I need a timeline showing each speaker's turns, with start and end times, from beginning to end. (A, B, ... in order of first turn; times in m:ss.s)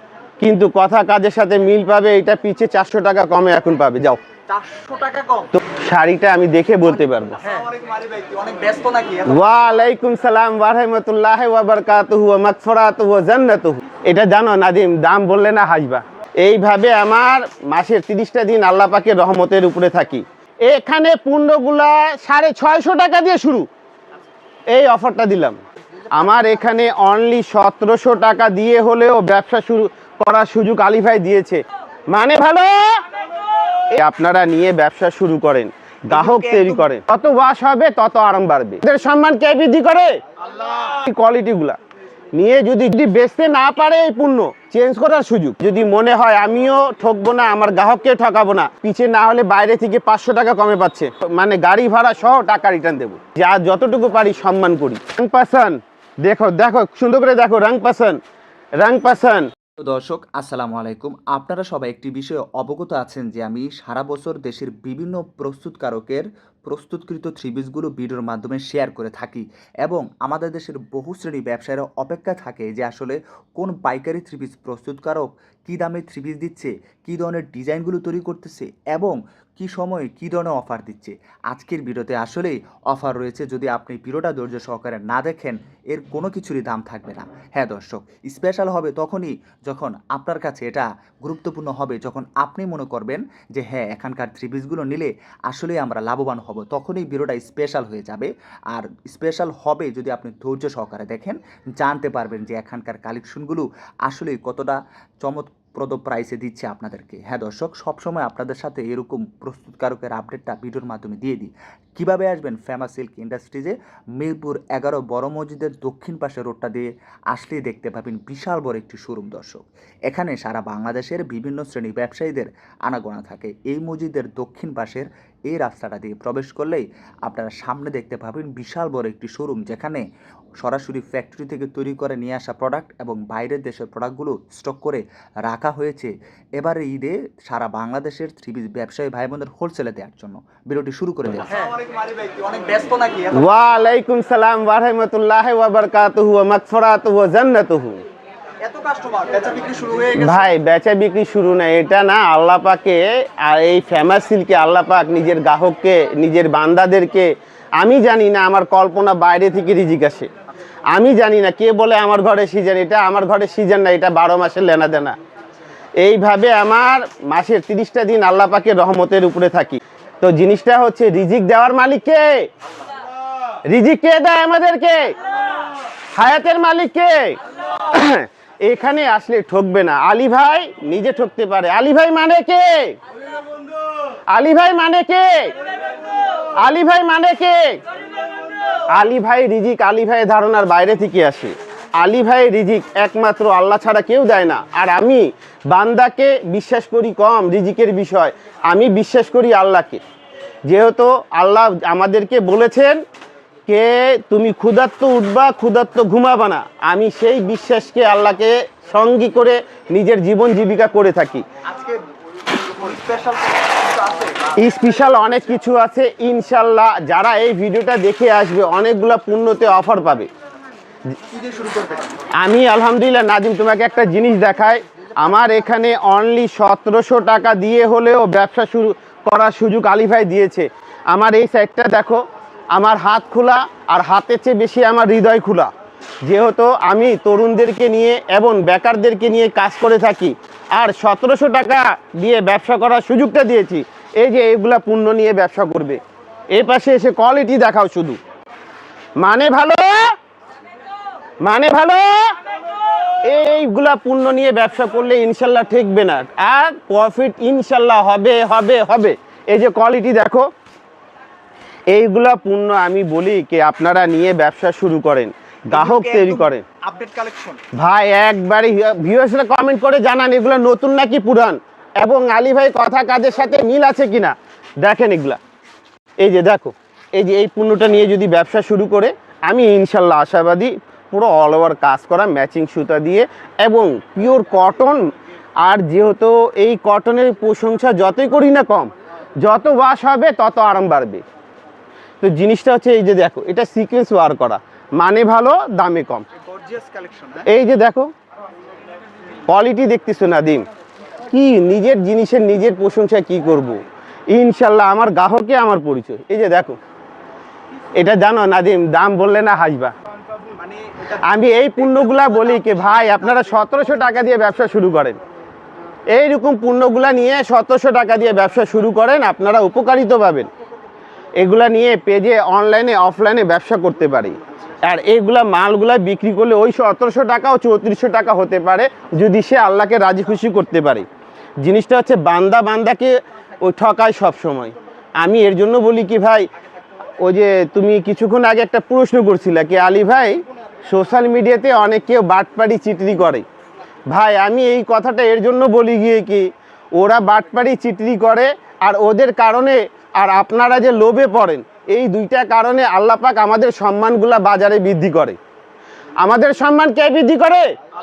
0:00.4-0:04.2 A
0:04.5-0:05.5 B
0:05.7-0:07.4 A
0:07.4-0:09.5 B
0:09.3-0:23.7 A
0:24.7-0:25.6 A
0:26.1-0:33.0 A
0:33.9-0:40.2 A
0:36.1-0:36.8 B
0:40.7-0:41.8 A
0:42.4-0:58.2 A
0:58.8-0:59.5 A
0:59.8-2:10.0 C
2:10.6-2:21.6 C
2:21.4-2:23.5 B
2:23.4-2:28.0 A
2:28.6-2:30.5 B
2:30.2-2:37.3 A
2:37.8-2:40.3 A
2:40.9-2:45.2 A
2:46.0-2:52.3 A
2:53.7-2:55.1 A
2:56.2-3:03.0 A
3:04.3-3:05.5 A
3:06.6-3:07.8 A
3:08.9-3:20.0 A
3:20.7-3:23.0 A
3:23.7-3:31.4 A
3:31.7-3:35.0 B
3:34.6-3:40.3 A
3:41.3-3:42.2 B
3:42.4-3:52.2 A
3:52.7-3:55.7 A
3:56.2-4:06.0 A
4:06.5-4:08.2 A
4:09.2-4:10.0 A
4:11.4-4:12.2 A
4:13.2-4:20.4 A
4:21.9-4:26.6 A
4:25.7-4:27.6 B
4:27.8-4:35.4 A
4:36.2-4:45.0 A
4:45.6-4:51.2 A
4:52.2-4:56.3 A
4:56.3-4:57.5 B
4:57.5-4:58.1 A
4:59.5-5:00.7 A
5:01.3-5:06.8 A
5:08.0-5:09.9 A
5:10.6-5:13.6 B
5:11.2-5:15.2 A
5:16.1-5:20.5 A
5:21.4-5:31.1 A
5:31.6-5:36.5 A
5:37.2-5:40.4 A
5:40.9-5:43.4 A
5:44.1-5:55.4 A
5:56.2-5:57.7 A